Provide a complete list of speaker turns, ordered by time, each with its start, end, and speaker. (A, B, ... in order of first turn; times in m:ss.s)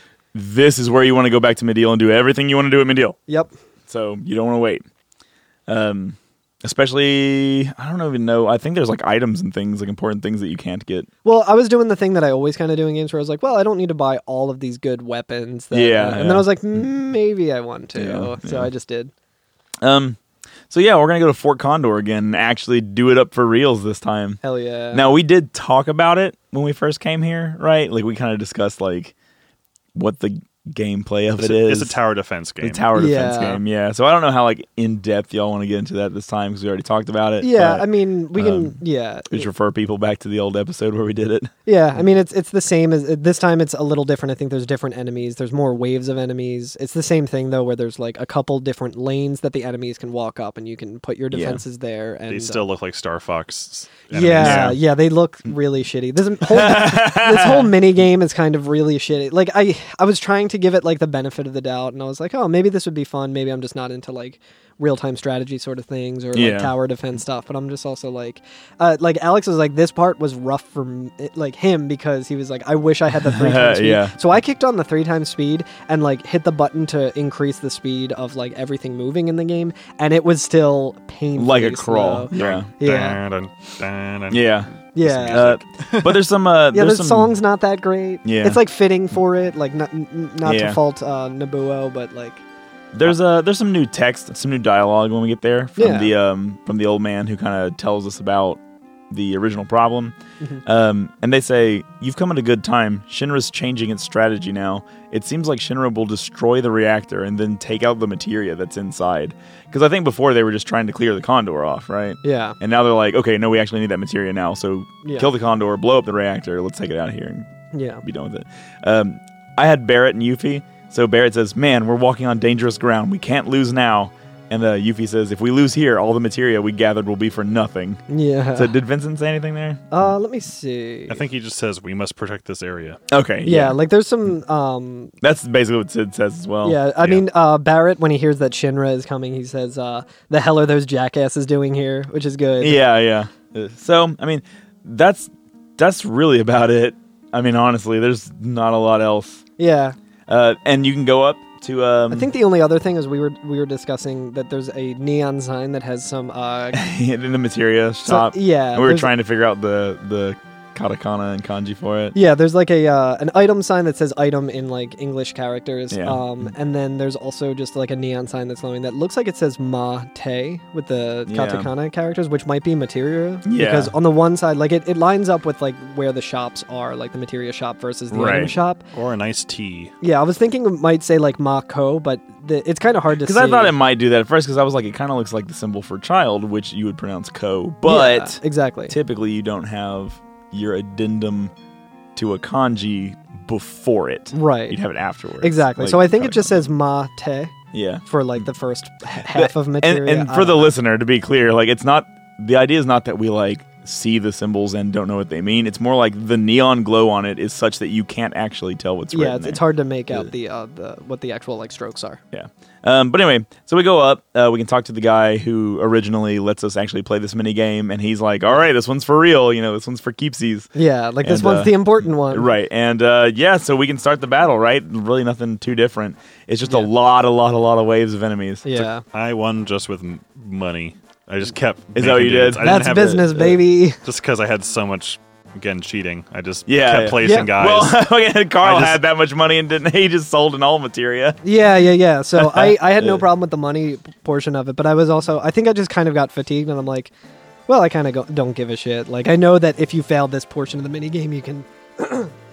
0:00.3-0:03.2 A
0:03.9-0:04.8 A
0:05.7-0:11.1 A
0:11.2-0:19.1 B
0:15.7-0:16.5 A
0:18.0-0:18.7 A
0:19.8-0:20.2 A
0:20.7-0:24.4 A
0:24.4-0:25.1 B
0:24.9-0:29.1 A
0:29.9-0:32.0 A
0:31.4-0:32.9 C
0:32.6-0:38.8 A
0:33.0-0:33.6 B
0:37.4-0:39.5 B
0:39.3-0:41.5 A
0:41.7-0:52.6 B
0:51.3-0:51.6 A
0:52.3-0:54.7 C
0:54.1-1:23.2 B
0:54.4-0:54.8 A
0:56.5-0:57.7 A
1:06.3-1:06.7 A
1:13.2-1:14.2 A
1:21.4-1:22.7 A
1:22.3-1:26.2 C
1:24.3-1:24.7 A
1:25.0-1:25.5 B
1:25.3-1:27.3 A
1:26.7-1:32.4 B
1:28.2-1:28.6 A
1:30.4-1:30.8 A
1:32.9-1:57.5 A
1:35.8-1:36.1 B
1:52.2-1:52.6 B
1:57.7-1:58.0 B
1:58.0-2:08.0 A
2:08.1-2:08.7 B
2:08.6-2:09.9 A
2:09.9-2:11.2 B
2:11.1-2:13.0 C
2:13.1-2:13.8 A
2:13.4-2:15.1 B
2:15.2-2:16.8 A
2:16.6-2:22.8 B
2:22.6-2:29.4 A
2:29.6-2:30.0 B
2:30.3-2:32.3 A
2:32.1-2:36.8 B
2:36.7-2:42.2 A
2:38.1-2:39.1 B
2:42.1-2:58.8 B
2:45.9-2:46.2 A
2:51.3-2:51.7 A
2:53.4-2:53.9 A
2:58.1-2:58.5 A
2:58.9-2:59.9 C
3:00.0-3:03.7 B
3:03.2-3:11.5 A
3:07.9-3:09.0 B
3:12.2-3:16.6 A
3:14.3-3:14.8 B
3:15.4-3:17.5 B
3:17.7-3:18.0 A
3:18.1-3:20.7 B
3:19.2-3:30.3 A
3:29.1-3:32.2 B
3:32.3-3:40.7 A
3:40.7-3:42.5 B
3:41.2-3:48.9 A
3:48.6-3:49.0 B
3:49.1-3:58.0 C
3:52.0-3:53.5 A
3:52.6-3:54.0 B
3:56.7-4:01.4 A
3:57.2-3:57.5 B
3:58.6-3:59.0 C
4:01.4-4:07.1 B
4:02.4-4:03.2 A
4:07.7-4:12.3 B